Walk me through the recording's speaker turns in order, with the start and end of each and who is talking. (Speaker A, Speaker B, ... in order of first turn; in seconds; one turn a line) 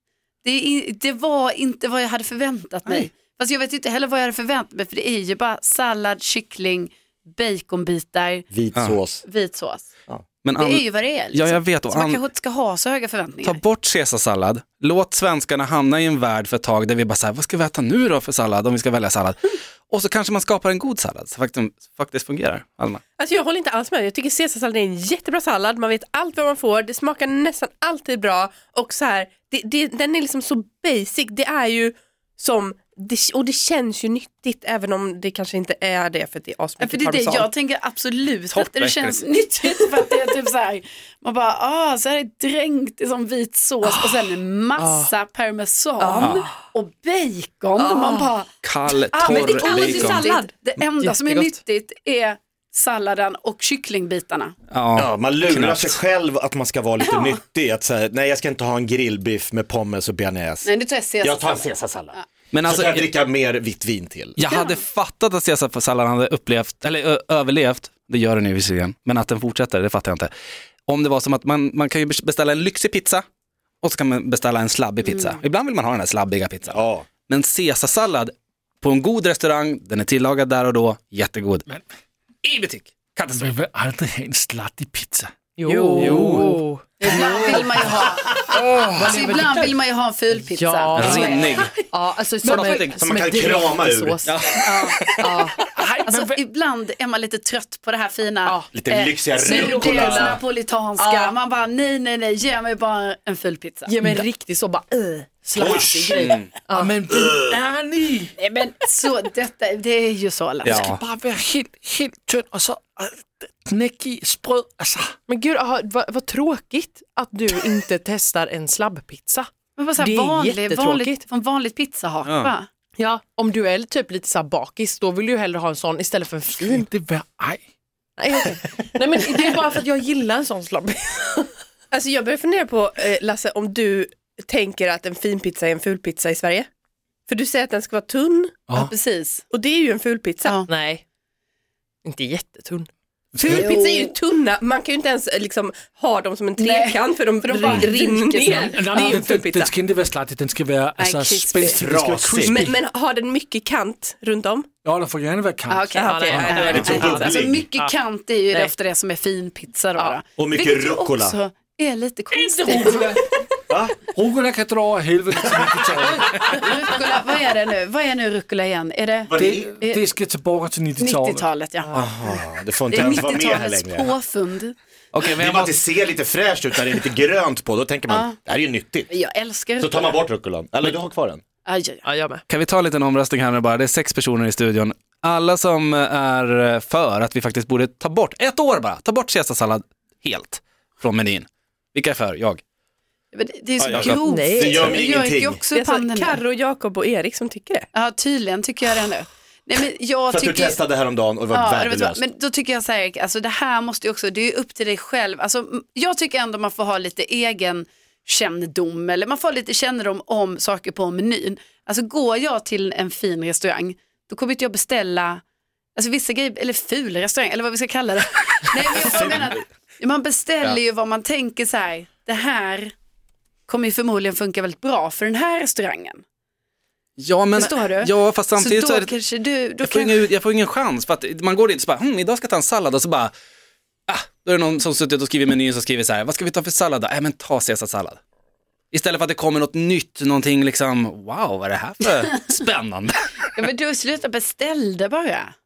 Speaker A: 0.4-8.5
Speaker B: 8.5-9.2
Speaker C: 8.7-9.0
Speaker A: 9.2-9.9
Speaker C: 10.4-12.2
Speaker A: 10.6-13.6
Speaker C: 13.4-23.0
Speaker D: 23.2-37.5
Speaker A: 36.8-48.5
Speaker C: 38.5-39.2
Speaker E: 44.8-45.1
Speaker D: 46.0-46.5
Speaker D: 47.8-48.3
Speaker C: 48.6-50.2
Speaker A: 49.1-54.5
Speaker D: 49.3-50.5
Speaker C: 54.7-56.0
Speaker B: 55.0-60.7
Speaker A: 57.0-57.4
Speaker A: 60.6-62.2
Speaker B: 61.2-62.1
Speaker C: 62.5-63.1
Speaker B: 62.7-64.4
Speaker C: 64.3-70.3
Speaker C: 70.9-73.2
Speaker C: 73.8-81.6
Speaker A: 75.0-75.4
Speaker B: 76.7-77.1
Speaker C: 82.4-83.5
Speaker F: 83.4-85.8
Speaker E: 85.6-87.6
Speaker C: 85.9-86.6
Speaker A: 87.0-91.6
Speaker F: 87.0-89.1
Speaker E: 88.9-89.7
Speaker E: 90.3-95.6
Speaker C: 90.9-91.7
Speaker C: 92.5-93.0
Speaker B: 93.0-94.2
Speaker C: 94.2-95.3
Speaker A: 94.6-95.0
Speaker F: 95.6-96.4
Speaker A: 96.0-104.0
Speaker B: 98.7-100.4
Speaker E: 99.3-100.4
Speaker E: 101.0-101.3
Speaker E: 103.8-107.0
Speaker B: 105.6-106.0
Speaker F: 105.6-106.2
Speaker C: 106.2-106.5
Speaker F: 106.7-108.3
Speaker B: 107.1-107.5
Speaker A: 108.4-110.8
Speaker F: 110.6-115.1
Speaker C: 110.6-111.0
Speaker E: 115.3-121.2
Speaker A: 119.8-122.7
Speaker C: 122.2-122.5
Speaker E: 123.0-126.8
Speaker F: 126.6-127.6
Speaker E: 128.2-131.5
Speaker F: 128.3-128.7
Speaker D: 131.9-136.7
Speaker D: 137.3-138.6
Speaker A: 138.7-139.4
Speaker D: 139.5-140.6
Speaker E: 140.7-141.0
Speaker E: 142.0-142.9
Speaker F: 143.3-143.6
Speaker D: 143.4-149.7
Speaker A: 143.4-144.1
Speaker A: 146.6-148.8
Speaker E: 148.0-149.1
Speaker F: 148.7-152.8
Speaker A: 151.0-151.8
Speaker B: 151.6-152.7
Speaker D: 152.4-154.7
Speaker F: 154.8-157.0
Speaker A: 155.7-163.2
Speaker D: 155.9-156.8
Speaker E: 156.0-157.9
Speaker B: 156.7-157.6
Speaker B: 160.4-161.4
Speaker F: 162.5-163.3
Speaker B: 163.7-164.0
Speaker F: 164.1-166.6
Speaker A: 166.5-170.0
Speaker B: 169.3-169.7
Speaker F: 169.4-171.5
Speaker A: 171.0-172.4
Speaker B: 171.9-174.1
Speaker A: 172.9-174.8
Speaker C: 175.1-175.7
Speaker B: 175.3-179.1
Speaker A: 178.1-178.3
Speaker A: 179.1-180.2
Speaker B: 179.8-181.4
Speaker A: 181.6-182.0
Speaker E: 182.0-182.4
Speaker C: 182.5-192.6
Speaker A: 193.3-196.4
Speaker B: 193.8-195.6
Speaker E: 194.2-195.0
Speaker D: 195.7-197.9
Speaker A: 197.9-200.8
Speaker B: 200.3-202.2
Speaker A: 201.5-215.4
Speaker A: 215.9-222.9
Speaker B: 219.0-219.5
Speaker A: 223.7-226.2
Speaker C: 227.2-229.1
Speaker A: 227.5-230.2
Speaker C: 229.8-233.3
Speaker C: 234.1-238.2
Speaker C: 238.9-243.6
Speaker A: 243.6-245.5